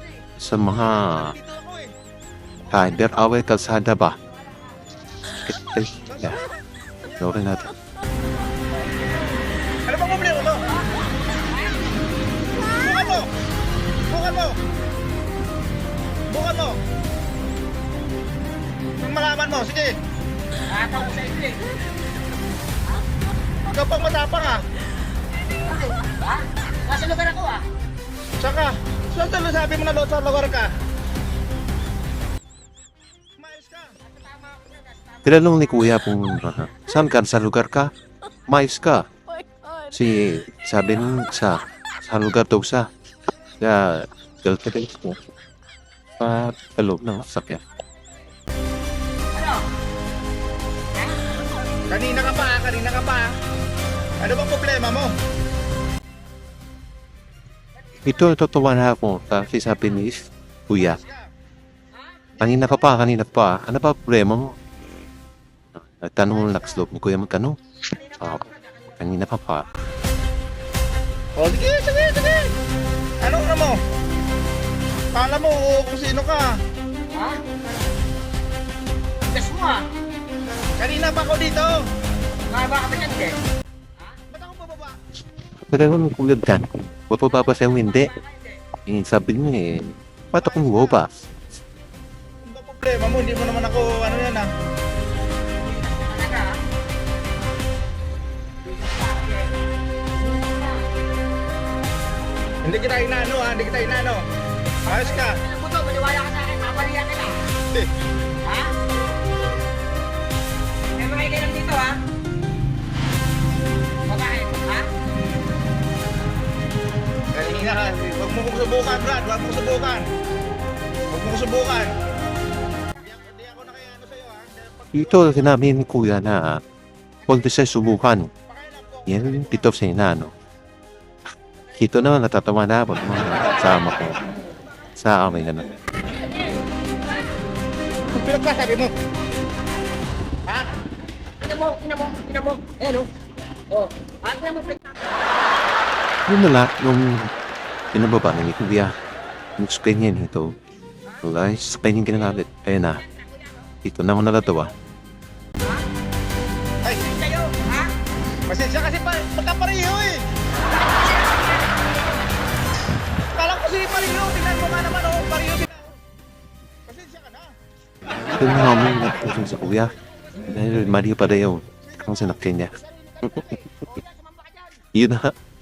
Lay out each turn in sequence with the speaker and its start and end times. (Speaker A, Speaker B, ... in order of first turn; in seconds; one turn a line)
Speaker A: 0.4-1.4
Speaker B: 1.3-1.9
Speaker A: 2.7-4.2
Speaker A: 5.3-6.4
Speaker B: 6.1-6.4
Speaker A: 7.2-7.7
Speaker B: 9.8-10.7
Speaker B: 12.6-13.3
Speaker B: 14.1-14.6
Speaker B: 16.3-16.8
Speaker B: 19.0-20.0
Speaker C: 20.7-21.6
Speaker B: 23.7-24.6
Speaker C: 25.8-27.6
Speaker B: 28.4-30.7
Speaker B: 33.4-34.0
Speaker A: 35.2-37.9
Speaker A: 38.5-39.1
Speaker A: 39.9-42.9
Speaker A: 43.6-45.2
Speaker A: 46.2-47.6
Speaker B: 51.9-53.4
Speaker B: 54.2-55.1
Speaker A: 58.0-61.0
Speaker A: 62.4-64.5
Speaker A: 65.8-67.6
Speaker A: 68.2-69.7
Speaker B: 71.3-72.5
Speaker B: 73.2-73.8
Speaker B: 75.1-76.6
Speaker C: 77.1-77.4
Speaker C: 79.3-79.9
Speaker B: 80.8-81.8
Speaker C: 82.5-83.4
Speaker B: 84.3-85.0
Speaker A: 85.7-88.2
Speaker A: 88.8-91.2
Speaker B: 92.4-94.5
Speaker C: 95.8-96.6
Speaker C: 98.8-99.4
Speaker B: 102.6-104.2
Speaker B: 104.8-105.4
Speaker C: 105.3-107.4
Speaker C: 108.4-108.8
Speaker C: 111.0-112.0
Speaker C: 114.1-114.9
Speaker B: 117.3-120.1
Speaker B: 121.1-122.0
Speaker B: 123.0-125.4
Speaker A: 124.9-126.6
Speaker A: 127.3-128.3
Speaker B: 128.5-129.3
Speaker A: 129.1-130.3
Speaker A: 131.7-134.2
Speaker A: 134.9-135.7
Speaker B: 138.1-138.9
Speaker C: 141.4-143.1
Speaker C: 143.7-144.8
Speaker A: 146.2-147.3
Speaker A: 147.9-148.9
Speaker A: 149.6-150.5
Speaker A: 151.2-153.0
Speaker A: 153.8-154.7
Speaker B: 156.8-157.2
Speaker C: 157.2-157.9
Speaker B: 158.5-160.2
Speaker B: 163.3-165.9
Speaker B: 166.8-167.5
Speaker A: 168.3-174.0
Speaker A: 174.9-175.3